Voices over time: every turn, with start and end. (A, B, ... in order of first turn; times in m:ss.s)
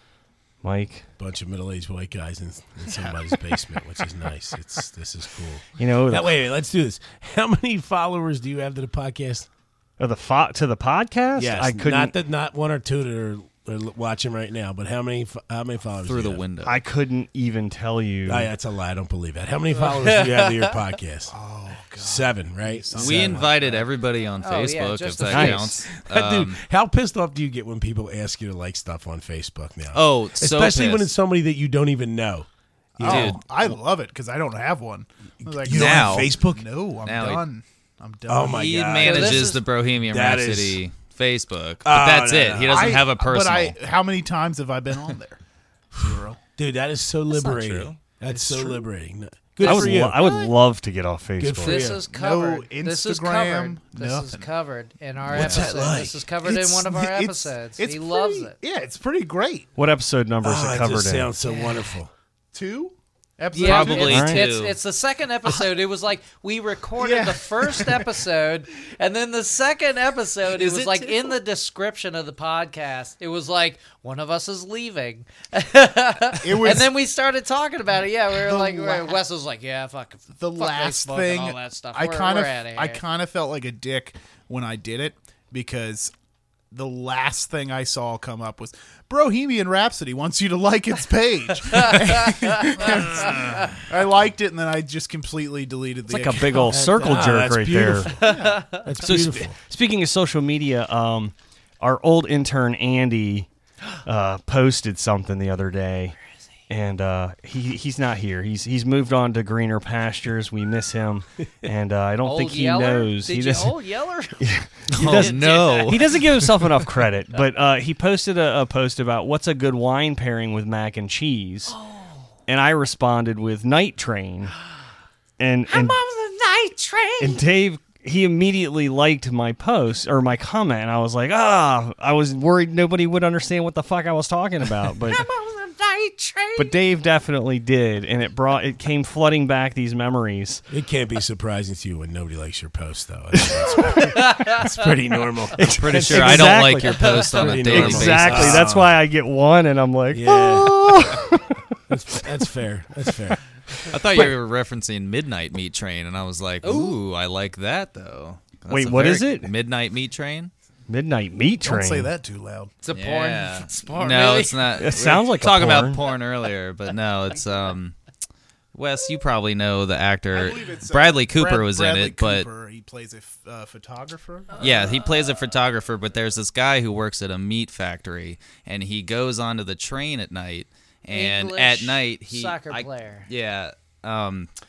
0:00.6-0:01.0 A
0:01.2-0:09.5 B
0:05.8-0:06.3 A
0:10.0-0:12.1 A
0:11.4-0:16.4 B
0:16.0-0:16.7 C
0:16.6-0:18.5 A
0:18.2-0:21.3 B
0:19.7-0:20.8 D
0:21.3-0:23.9 E
0:22.0-0:23.3 B
0:22.9-0:26.6 C
0:24.4-0:25.8 D
0:25.3-0:25.8 A
0:26.0-0:32.5 B
0:29.9-0:31.1 C
0:33.0-0:38.9 E
0:33.0-0:33.4 B
0:33.0-0:33.4 C
0:35.6-0:36.6 B
0:35.7-0:36.3 C
0:37.0-0:37.4 C
0:38.3-0:40.8 B
0:38.4-0:43.8 C
0:39.0-0:39.6 D
0:41.8-0:43.0 B
0:42.7-0:45.4 E
0:45.9-0:46.4 E
0:46.0-0:50.2 B
0:47.3-0:48.0 C
0:48.3-0:48.8 E
0:49.6-0:51.9 A
0:49.7-0:50.5 D
0:51.4-0:52.1 B
0:51.6-0:58.5 D
0:52.1-0:54.5 E
0:55.2-0:56.3 B
0:55.3-0:55.6 C
0:56.4-0:59.7 E
0:59.8-1:01.3 A
1:00.4-1:02.1 B
1:01.4-1:01.8 D
1:02.5-1:04.2 E
1:03.5-1:23.0 D
1:03.6-1:04.8 C
1:04.0-1:04.4 A
1:07.0-1:08.1 E
1:10.6-1:11.2 C
1:16.4-1:16.9 E
1:18.3-1:19.2 E
1:20.4-1:26.1 E
1:26.7-1:36.7 E
1:31.6-1:33.8 D
1:36.1-1:38.1 A
1:36.5-1:38.3 B
1:38.2-1:38.9 D
1:38.2-1:39.2 E
1:38.8-1:39.6 B
1:39.0-1:43.5 A
1:44.0-1:46.2 A
1:46.7-1:53.8 A
1:52.2-1:54.4 D
1:54.4-2:01.8 A
1:54.9-1:56.8 C
1:55.0-1:55.9 D
2:01.8-2:02.0 D
2:02.5-2:04.5 A
2:05.4-2:06.0 A
2:05.7-2:07.4 D
2:07.2-2:15.3 A
2:15.2-2:16.6 D
2:16.6-2:20.6 A
2:20.7-2:26.6 B
2:23.3-2:24.1 A
2:24.1-2:24.6 D
2:25.6-2:31.6 A
2:25.8-2:28.7 C
2:26.7-2:27.3 D
2:27.3-2:29.0 B
2:30.1-2:31.2 B
2:31.9-2:33.4 B
2:33.8-2:34.4 A
2:33.9-2:40.5 C
2:36.6-2:37.0 D
2:38.7-2:39.5 A
2:40.9-2:42.1 A
2:41.6-2:42.7 E
2:42.8-2:44.8 D
2:42.9-2:48.0 C
2:44.8-2:46.0 A
2:48.7-2:52.5 C
2:50.3-2:54.7 E
2:54.6-3:04.5 C
3:01.1-3:03.3 D